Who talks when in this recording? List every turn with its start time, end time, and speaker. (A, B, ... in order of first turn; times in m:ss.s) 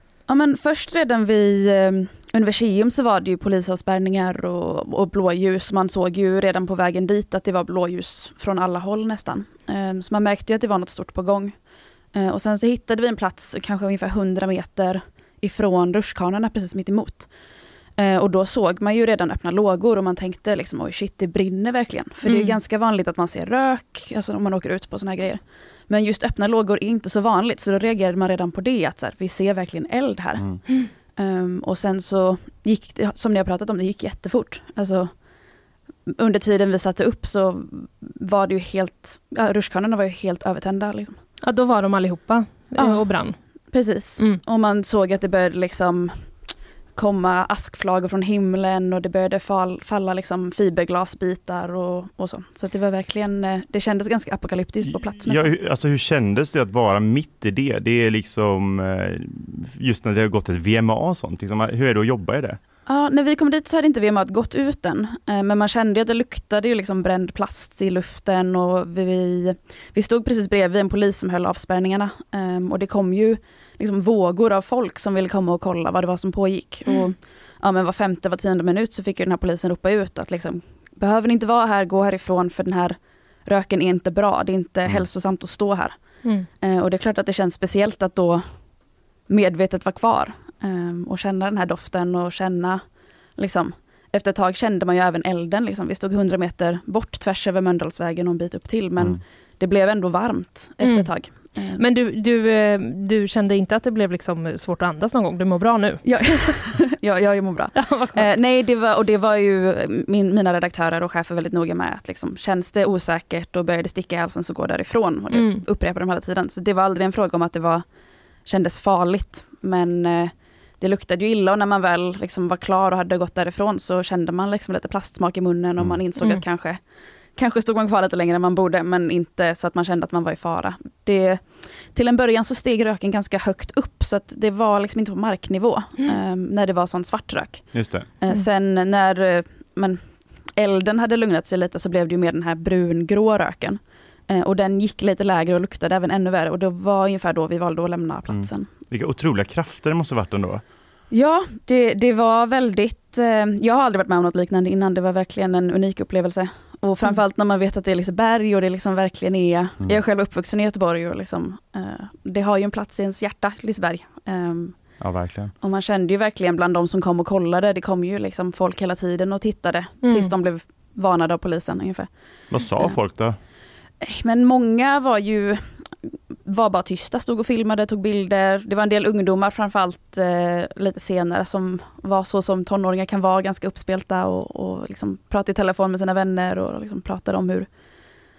0:00.3-0:17.3 A
0:18.0-0:30.5 A
0:22.2-0:22.6 B
0:31.2-0:35.2 A
0:36.1-0:41.2 A
0:41.4-0:43.4 B
0:42.8-0:46.4 A
0:44.0-0:44.4 B
0:47.0-0:55.5 A
0:55.2-1:02.6 C
1:02.9-1:28.7 A
1:29.3-1:41.8 A
1:40.8-1:46.6 B
1:46.0-1:57.9 A
1:47.8-1:48.3 B
1:55.3-1:55.6 B
1:58.4-2:06.8 A
2:07.4-2:28.7 A
2:17.7-2:18.1 C
2:28.3-2:30.6 C
2:31.1-2:45.0 A
2:45.0-2:45.5 C
2:45.6-2:53.0 A
2:50.0-2:50.4 B
2:52.5-2:53.4 C
2:54.0-3:07.7 A